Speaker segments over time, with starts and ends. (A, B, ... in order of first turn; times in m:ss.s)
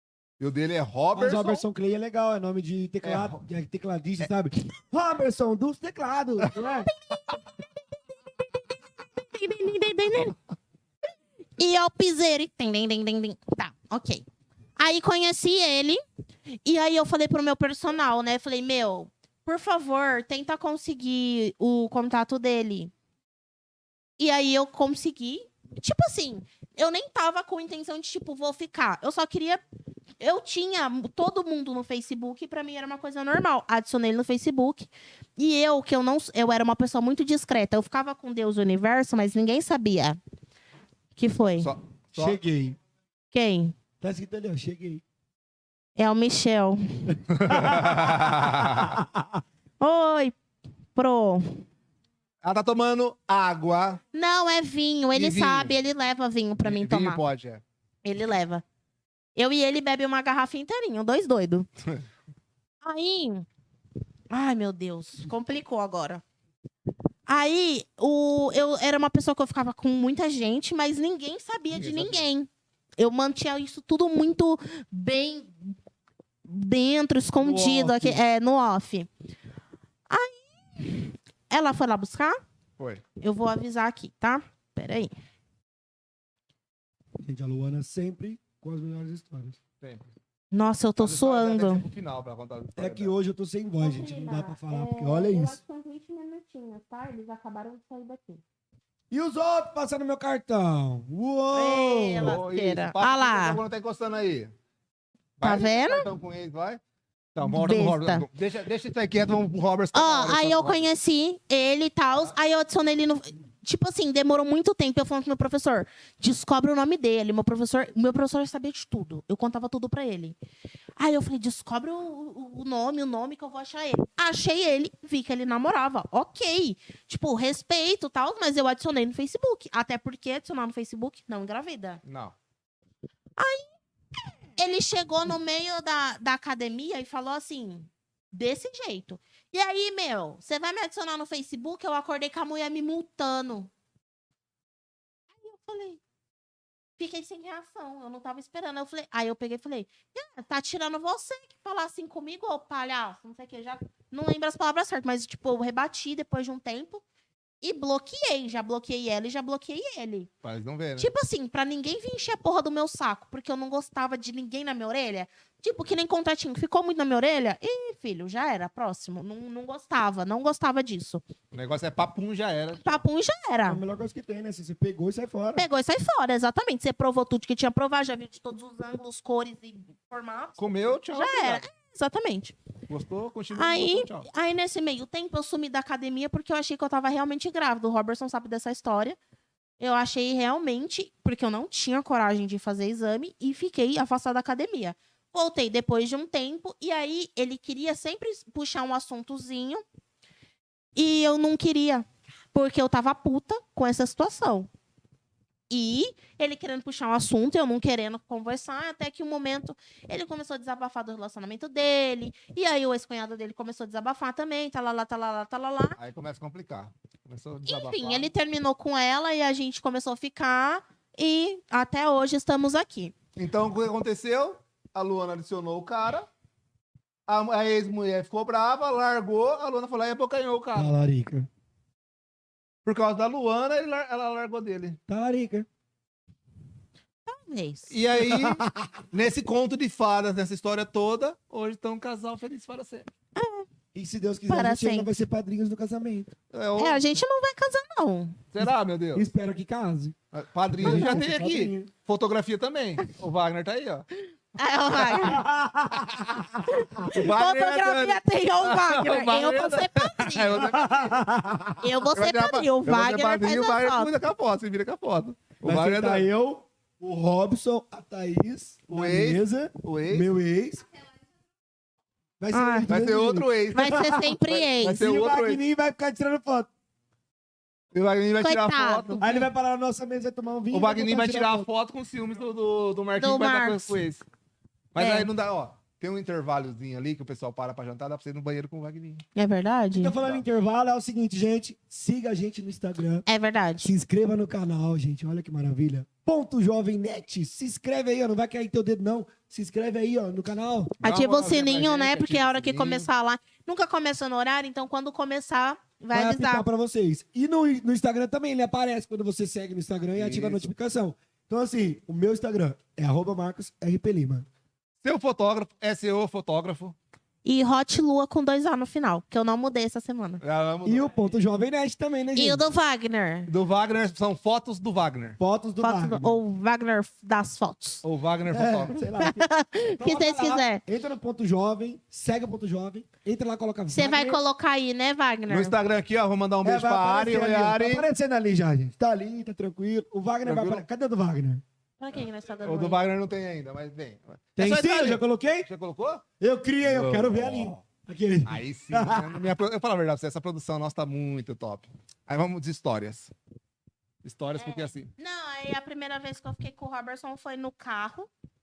0:00.4-0:01.6 A
0:01.1-0:06.9 B
0:03.0-0:03.4 A
0:06.8-0:07.5 C
0:08.4-0:10.3 C
0:11.6-0:14.2 C
0:14.8-0:16.0 C
0:16.6-0:22.9 C
0:24.2-0:29.6 C
0:30.2-0:40.2 C
0:41.2-0:41.7 C
0:41.4-0:42.4 A
0:42.2-0:42.8 B
0:43.3-0:43.7 C
0:44.0-0:45.0 B
0:46.0-0:47.2 C
0:47.3-0:49.0 A
0:47.5-0:49.4 B
0:49.8-0:50.3 C
0:50.9-0:51.6 C
0:52.4-0:54.0 A
0:54.1-0:57.2 C
0:55.1-0:55.7 A
0:56.6-0:57.6 A
0:58.0-0:58.6 C
0:59.4-1:01.7 C
1:02.8-1:03.4 C
1:04.3-1:06.2 C
1:07.3-1:15.7 C
1:11.7-1:12.3 A
1:16.5-1:19.1 C
1:17.4-1:18.2 B
1:20.1-1:22.4 C
1:22.8-1:23.0 A
1:23.2-1:25.1 C
1:27.2-1:29.6 B
1:29.8-1:30.1 A
1:30.5-1:31.8 C
1:31.0-1:33.1 A
1:32.8-1:35.6 B
1:33.8-1:38.4 C
1:39.1-1:42.4 B
1:41.5-1:43.6 C
1:42.2-1:44.5 A
1:45.4-1:46.8 A
1:45.4-1:46.1 C
1:47.3-1:50.8 A
1:47.4-1:48.3 C
1:49.9-2:00.4 C
2:01.0-2:12.0 C
2:12.0-2:12.3 A
2:13.4-2:13.7 C
2:14.6-2:23.7 C
2:25.4-2:26.0 C
2:27.0-2:37.0 C
2:37.6-2:40.3 C
2:40.4-2:41.1 A
2:41.0-2:51.2 C
2:51.5-2:53.0 A
2:52.8-2:53.8 C
2:53.6-2:55.7 B
2:55.6-3:02.6 C
3:00.6-3:01.6 A
3:02.9-3:04.3 A
3:03.5-3:09.2 C
3:09.8-3:19.8 C
3:21.0-3:24.7 C
3:25.7-3:36.0 C
3:36.0-3:38.3 A
3:37.6-3:43.1 C
3:43.4-3:46.3 A
3:47.3-3:50.9 A
3:50.7-3:51.5 B
3:52.8-3:55.0 A
3:55.1-3:55.7 B
3:57.2-3:58.0 C
3:57.9-4:03.1 A
3:58.1-3:58.9 B
4:03.4-4:03.7 C
4:03.9-4:06.3 B
4:04.5-4:05.1 C
4:06.5-4:07.0 A
4:06.8-4:08.4 C
4:08.5-4:09.2 A
4:09.1-4:10.2 B
4:10.3-4:14.0 A
4:10.8-4:11.9 B
4:14.6-4:15.4 C
4:15.1-4:16.8 B
4:16.7-4:20.6 C
4:17.0-4:21.2 A
4:20.5-4:21.9 B
4:21.8-4:24.1 C
4:22.1-4:26.3 A
4:25.6-4:30.8 B
4:28.9-4:30.2 A
4:32.4-4:36.7 B
4:32.5-4:32.9 C
4:32.9-4:35.6 A
4:33.7-4:35.1 C
4:37.9-4:39.3 A
4:38.4-4:39.4 C
4:39.2-4:41.7 B
4:40.7-4:44.2 A
4:43.2-4:44.0 C
4:44.9-4:49.2 A
4:45.0-4:45.3 C
4:49.4-4:50.1 C
4:49.9-4:53.2 B
4:53.3-4:53.9 C
4:53.8-5:00.9 B
5:01.0-5:06.6 C
5:01.0-5:03.1 A
5:06.1-5:14.5 B
5:10.1-5:10.7 A
5:15.0-5:17.0 A
5:17.4-5:20.4 C
5:20.4-5:21.2 A
5:20.8-5:22.6 B
5:22.3-5:23.5 C
5:23.5-5:25.4 A
5:25.4-5:26.3 B
5:25.8-5:28.0 C
5:28.0-5:29.0 A
5:28.5-5:34.4 B
5:29.2-5:30.8 C
5:33.9-5:35.7 C
5:35.5-5:38.1 A
5:36.6-5:41.6 B
5:40.4-5:40.8 A
5:42.0-5:43.0 C
5:42.6-5:46.2 A
5:44.6-5:45.7 B
5:46.4-5:49.4 B
5:46.8-5:47.8 A
5:48.4-5:53.3 A
5:54.2-5:55.1 A
5:54.6-5:58.3 C